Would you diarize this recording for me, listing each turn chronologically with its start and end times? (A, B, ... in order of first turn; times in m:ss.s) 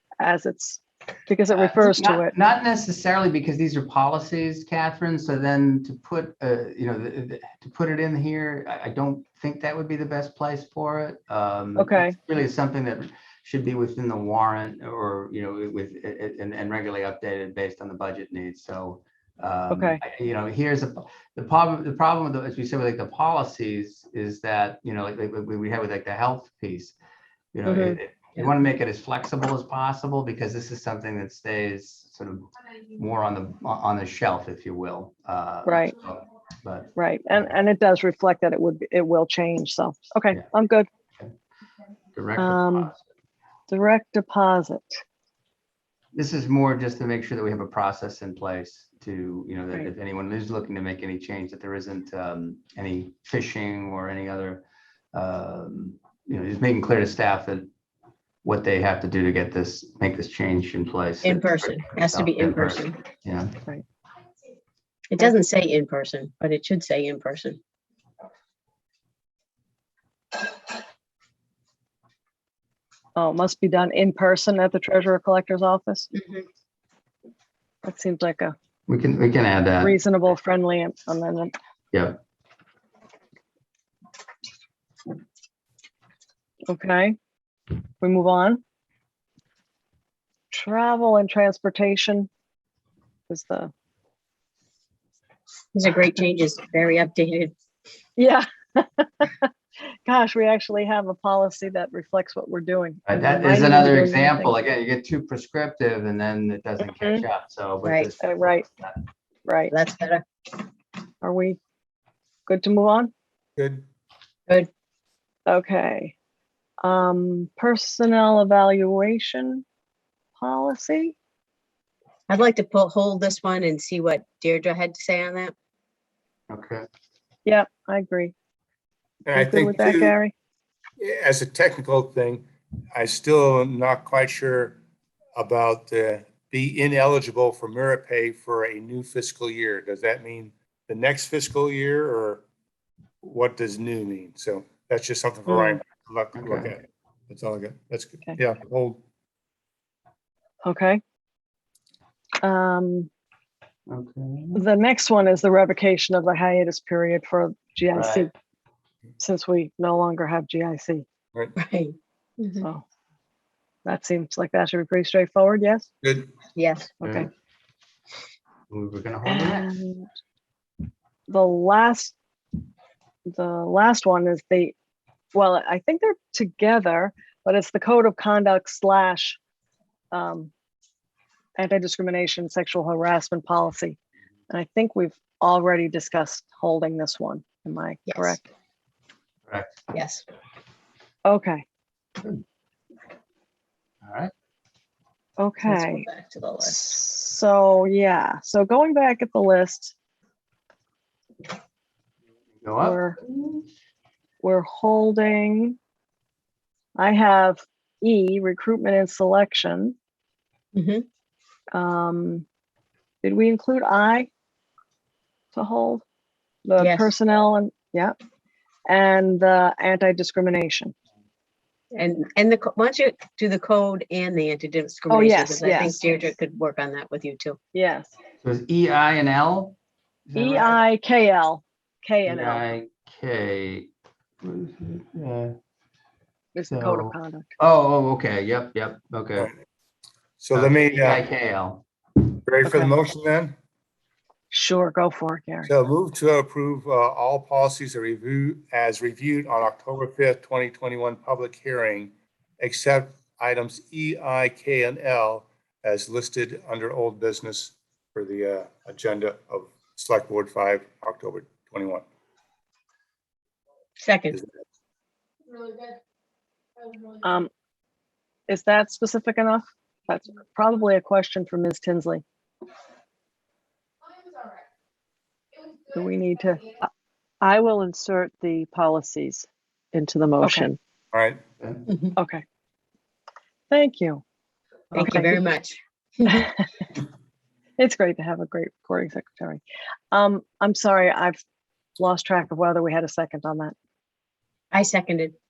0:00.2-0:02.3 A
0:01.5-0:27.0 B
0:11.8-0:12.2 A
0:19.7-0:20.0 A
0:27.5-0:36.9 B
0:27.7-0:28.0 A
0:35.6-0:36.0 A
0:37.0-0:40.9 A
0:42.1-0:43.0 B
0:42.4-0:42.9 A
0:43.7-0:45.0 A
0:46.1-0:57.7 B
0:58.4-1:03.6 B
1:01.2-1:03.0 C
1:05.1-1:07.6 C
1:13.2-1:16.1 A
1:16.1-1:16.5 C
1:17.8-1:18.6 A
1:18.9-1:20.0 B
1:19.8-1:21.5 A
1:21.9-1:22.2 B
1:26.7-1:27.2 A
1:28.0-1:28.6 A
1:30.5-1:32.3 A
1:33.3-1:33.7 A
1:35.7-1:37.5 C
1:38.2-1:39.5 A
1:40.1-1:44.5 A
1:43.1-1:49.0 B
1:46.9-1:47.2 A
1:47.8-1:48.1 C
1:48.2-1:48.7 A
1:49.5-1:49.7 A
1:49.7-1:50.2 C
1:51.2-1:51.6 A
1:52.5-1:53.1 A
1:53.6-1:53.9 D
1:55.5-1:56.2 A
1:56.8-1:59.6 A
2:00.4-2:01.2 A
2:02.3-2:05.5 C
2:06.5-2:06.8 B
2:07.4-2:08.3 A
2:09.2-2:10.2 D
2:09.4-2:10.3 A
2:11.0-2:14.8 D
2:15.4-2:22.4 D
2:23.2-2:29.0 D
2:25.5-2:25.8 A
2:26.4-2:26.7 B
2:30.6-2:31.0 A
2:32.4-2:33.1 A
2:33.9-2:34.6 B
2:34.6-2:38.3 A
2:38.0-2:38.3 B
2:39.2-2:41.1 A
2:41.6-2:42.6 C
2:43.8-2:45.9 A
2:46.0-2:46.3 D
2:46.6-2:46.9 C
2:47.0-2:47.3 A
2:47.0-2:47.3 B
2:48.7-2:49.7 B
2:49.3-2:50.1 A
2:51.3-2:52.2 A
2:53.3-2:54.8 A
2:55.3-2:59.4 A
3:00.1-3:00.5 A
3:01.6-3:04.0 A
3:04.5-3:08.5 A
3:08.1-3:08.4 C
3:09.5-3:09.8 B
3:09.9-3:10.2 C
3:11.2-3:11.6 A
3:14.0-3:14.3 B
3:15.4-3:16.1 A
3:15.6-3:17.0 C
3:16.6-3:20.0 A
3:22.6-3:23.6 B
3:22.8-3:23.2 A
3:24.4-3:25.8 A
3:27.0-3:30.0 A
3:30.7-3:31.1 C
3:31.7-3:32.4 A
3:33.2-3:34.3 A
3:35.5-3:36.0 A
3:36.6-3:38.2 A
3:36.8-3:37.1 C
3:38.9-3:40.9 A
3:41.9-3:47.6 C
3:45.1-3:46.0 A
3:47.7-3:48.1 A
3:48.4-3:50.8 B
3:50.4-3:52.6 A
3:52.2-3:53.9 B
3:54.4-3:55.6 B
3:56.6-3:57.5 A
3:56.7-3:59.5 B
4:00.4-4:01.2 D
4:00.5-4:01.8 B
4:02.4-4:03.6 D
4:02.6-4:03.0 A
4:04.5-4:05.7 A
4:05.7-4:22.0 D
4:24.0-4:24.4 C
4:27.2-4:27.5 A
4:28.5-4:32.2 A
4:35.9-4:36.8 A
4:37.4-4:40.8 E
4:40.4-4:40.7 A
4:41.1-4:41.4 D
4:41.9-4:42.1 C
4:42.2-4:42.4 A
4:43.7-4:44.2 A
4:44.9-4:46.5 C
4:45.0-4:45.4 A
4:46.2-4:46.6 A
4:47.8-4:51.4 A
4:52.0-4:53.8 A
4:54.7-4:55.4 C